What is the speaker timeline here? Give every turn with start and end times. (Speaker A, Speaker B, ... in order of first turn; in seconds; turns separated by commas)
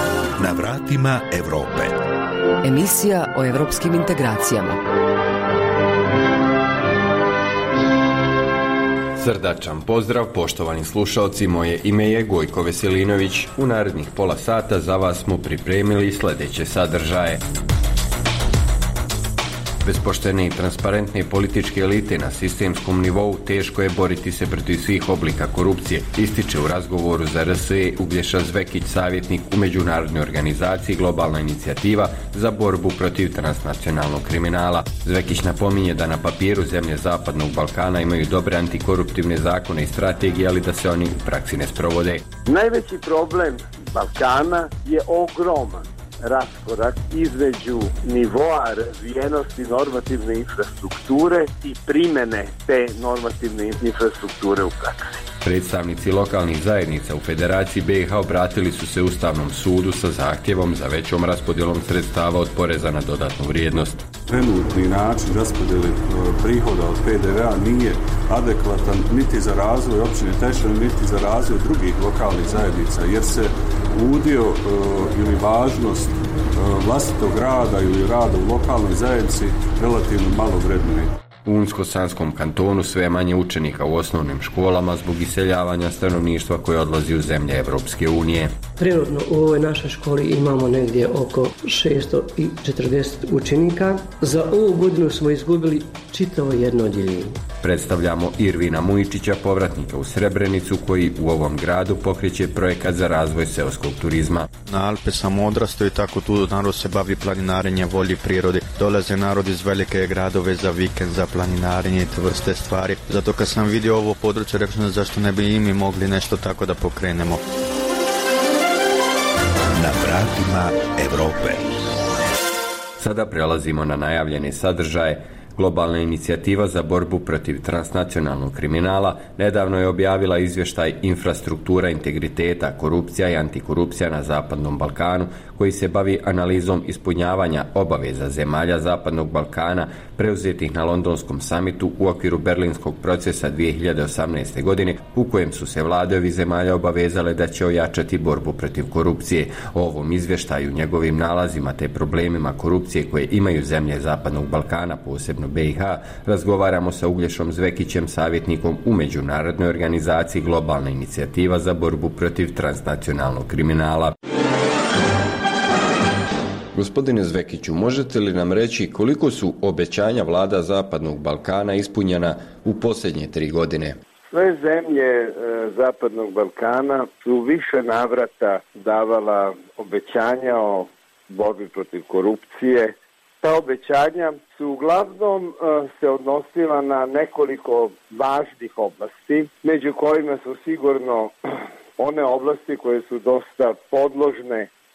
Speaker A: 0.4-2.0, Speaker B: 2.6-4.8, Speaker C: 9.2-17.4, Speaker C: 19.8-42.2, Speaker D: 42.5-55.2, Speaker C: 55.4-64.1, Speaker E: 64.3-81.1, Speaker C: 81.4-88.5, Speaker F: 88.8-97.4, Speaker C: 97.6-104.5, Speaker G: 104.7-117.4, Speaker A: 119.7-121.7, Speaker C: 123.0-164.1, Speaker C: 166.7-174.0, Speaker D: 174.3-191.3, Speaker D: 192.0-194.7